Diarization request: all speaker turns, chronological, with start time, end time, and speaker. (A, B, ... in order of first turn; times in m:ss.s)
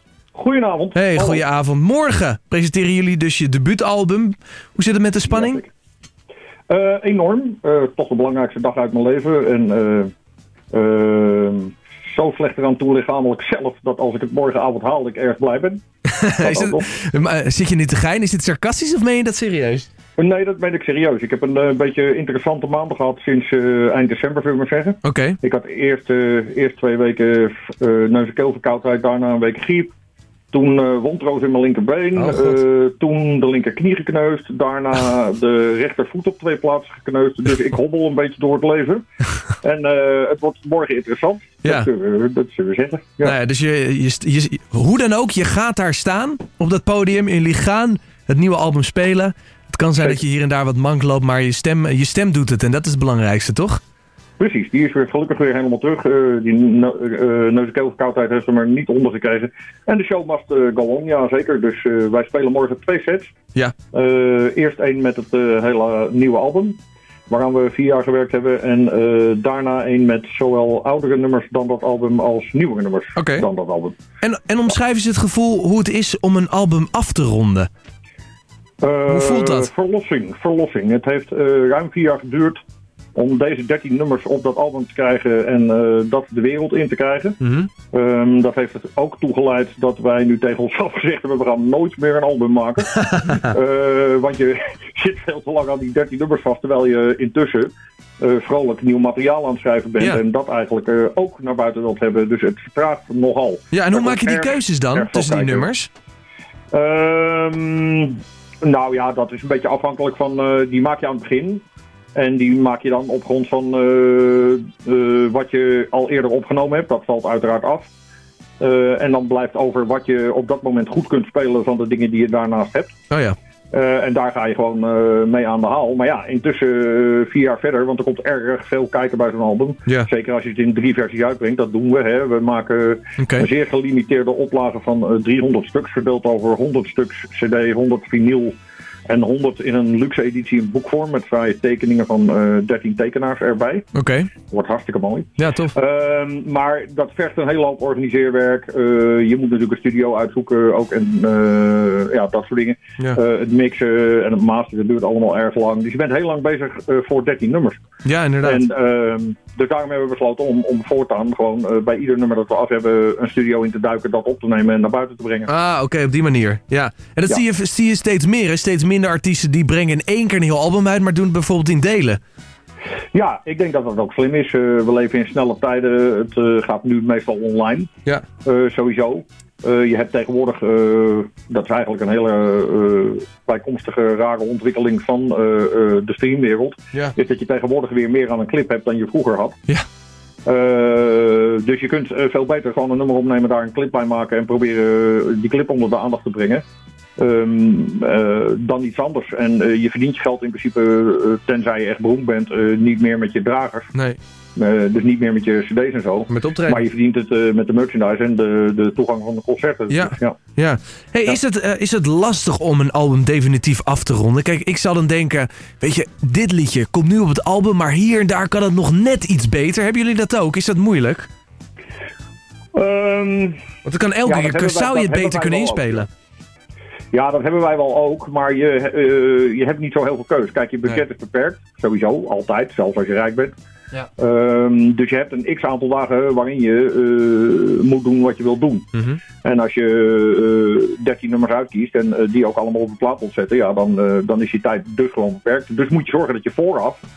0:00.4-0:01.4 A
0:01.0-0:05.6 B
0:05.3-0:05.7 A
0:06.7-0:10.1 A
0:10.7-0:15.8 A
0:16.1-0:19.9 B
0:16.4-0:16.9 A
0:20.2-0:29.9 A
0:25.0-0:25.4 B
0:30.5-0:39.0 A
0:32.2-0:32.5 B
0:39.6-0:43.4 A
0:43.2-0:53.8 B
0:54.4-1:03.3 A
1:03.9-1:14.0 A
1:13.2-1:13.5 B
1:14.2-1:17.7 B
1:18.8-1:22.6 A
1:19.1-1:19.7 B
1:23.2-1:45.7 A
1:43.7-1:45.9 B
1:46.7-1:51.6 A
1:52.2-1:57.9 A
1:58.6-2:03.0 A
2:03.1-2:03.4 B
2:03.7-2:18.6 A
2:13.2-2:13.5 B
2:19.1-2:23.9 A
2:23.9-2:24.3 B
2:24.5-2:37.8 A
2:25.4-2:25.7 B
2:38.0-2:38.6 B
2:38.4-2:45.5 A
2:45.5-2:52.2 B
2:53.1-2:57.9 A
2:58.4-3:09.6 A
3:10.5-3:16.6 A
3:17.2-3:23.9 A
3:24.6-3:30.4 A
3:26.3-3:26.8 B
3:29.9-3:41.3 B
3:42.8-3:43.6 A
3:43.8-3:46.1 B
3:44.2-3:46.1 A
3:47.1-3:53.5 A
3:54.2-4:07.0 A